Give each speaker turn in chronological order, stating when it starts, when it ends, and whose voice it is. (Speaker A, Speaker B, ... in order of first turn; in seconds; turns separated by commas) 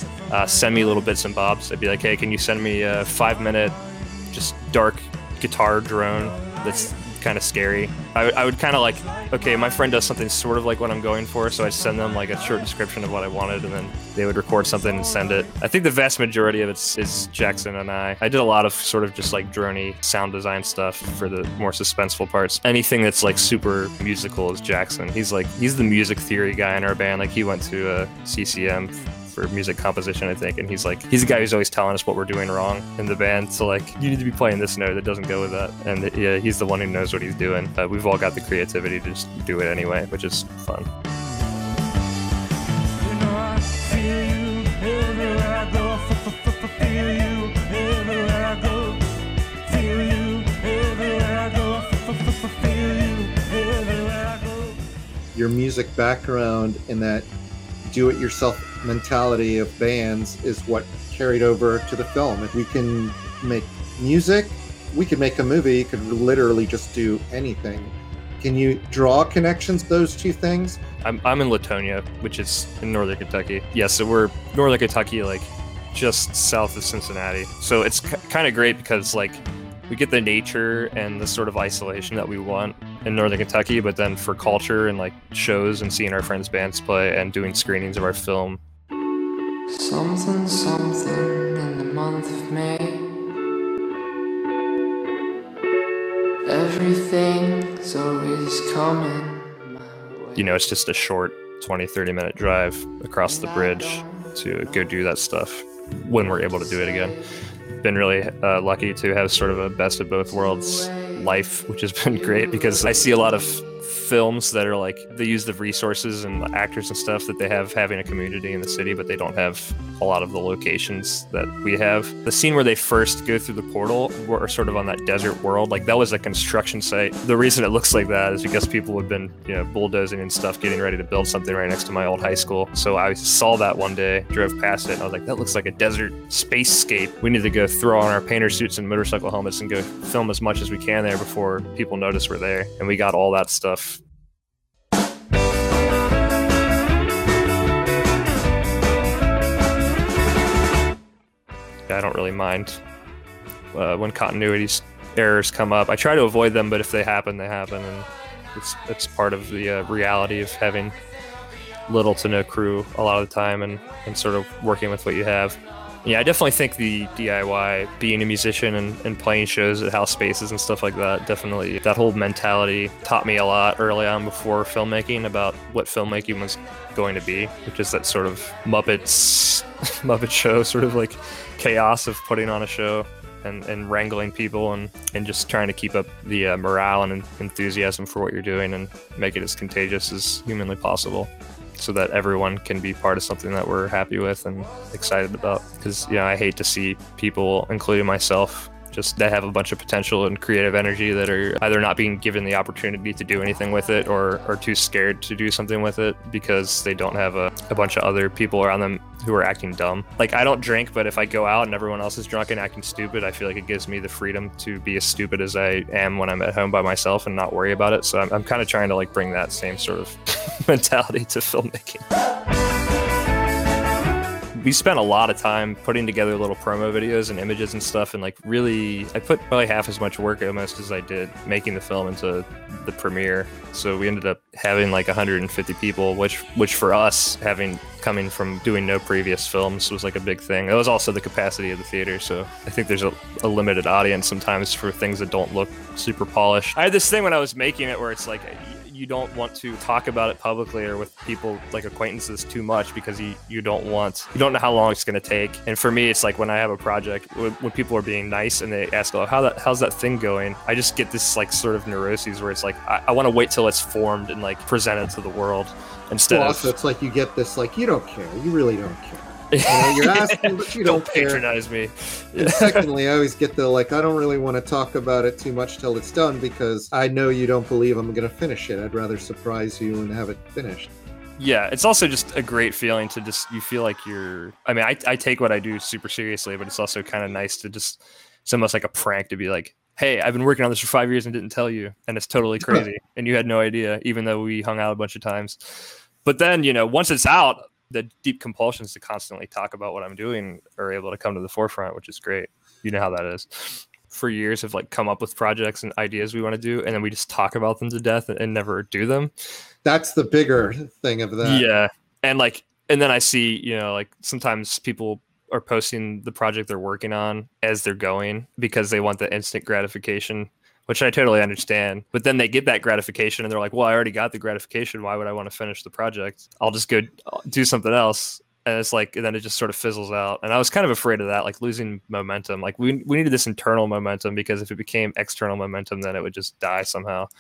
Speaker A: 0.3-3.8, Speaker A: 4.3-40.9, Speaker B: 43.0-49.0, Speaker B: 49.7-54.7, Speaker C: 55.3-57.3, Speaker C: 57.9-70.8, Speaker A: 71.0-88.6, Speaker B: 89.7-93.1, Speaker B: 96.5-100.5, Speaker A: 100.3-107.2, Speaker B: 103.2-105.0, Speaker B: 106.4-107.3, Speaker A: 107.8-144.0, Speaker B: 110.3-111.2, Speaker B: 112.1-113.7, Speaker A: 151.9-152.8, Speaker A: 153.7-160.9, Speaker A: 161.9-222.1, Speaker A: 224.6-266.8, Speaker C: 266.3-271.4, Speaker A: 269.5-272.9, Speaker C: 272.4-280.9, Speaker A: 281.4-309.3, Speaker C: 309.8-311.7, Speaker A: 311.4-337.3